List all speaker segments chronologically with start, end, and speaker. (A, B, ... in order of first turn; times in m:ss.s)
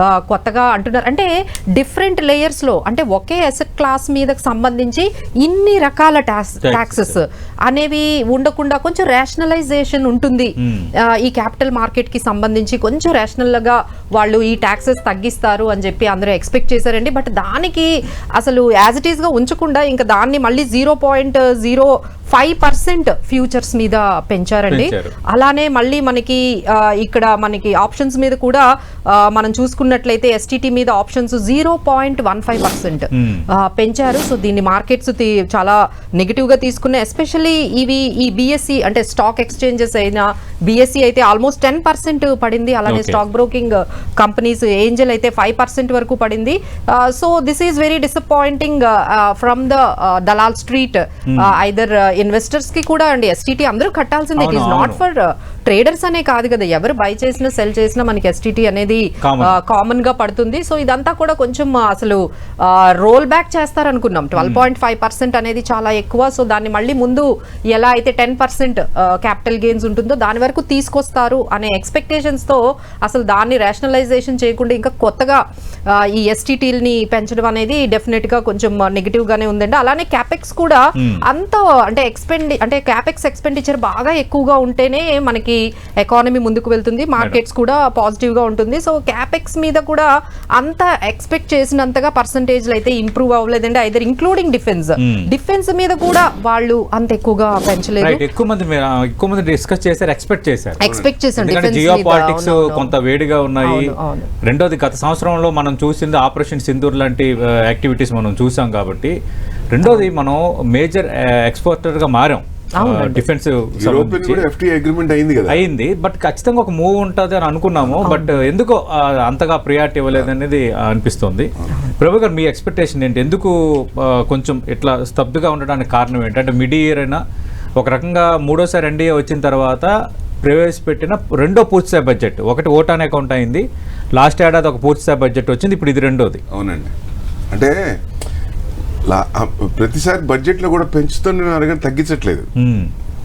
0:00.3-0:10.5 A
0:06.6-0:07.1 B
0:10.6-0:10.9 B
0:11.2-0:33.1 A
0:24.7-0:25.1 B
0:33.2-0:33.4 B
0:33.7-1:30.1 A
0:42.9-0:43.2 B
0:51.3-0:51.6 B
0:54.4-0:55.0 B
0:59.2-0:59.5 B
1:04.4-1:04.6 B
1:30.6-1:38.2 A
1:38.0-1:40.8 B
1:40.8-1:42.9 A
1:40.8-1:41.1 C
1:41.4-1:43.9 B
1:43.6-1:44.3 A
1:44.4-1:49.1 B
1:49.7-1:54.4 B
1:49.8-1:50.1 A
1:52.8-1:53.2 A
1:53.8-1:55.6 C
1:55.5-2:03.5 B
1:58.0-1:58.3 A
2:04.1-2:07.2 B
2:07.8-2:09.9 B
2:10.4-2:13.6 B
2:14.2-2:16.4 B
2:16.5-2:16.9 C
2:17.5-2:17.8 C
2:19.1-2:22.5 C
2:22.6-2:22.9 B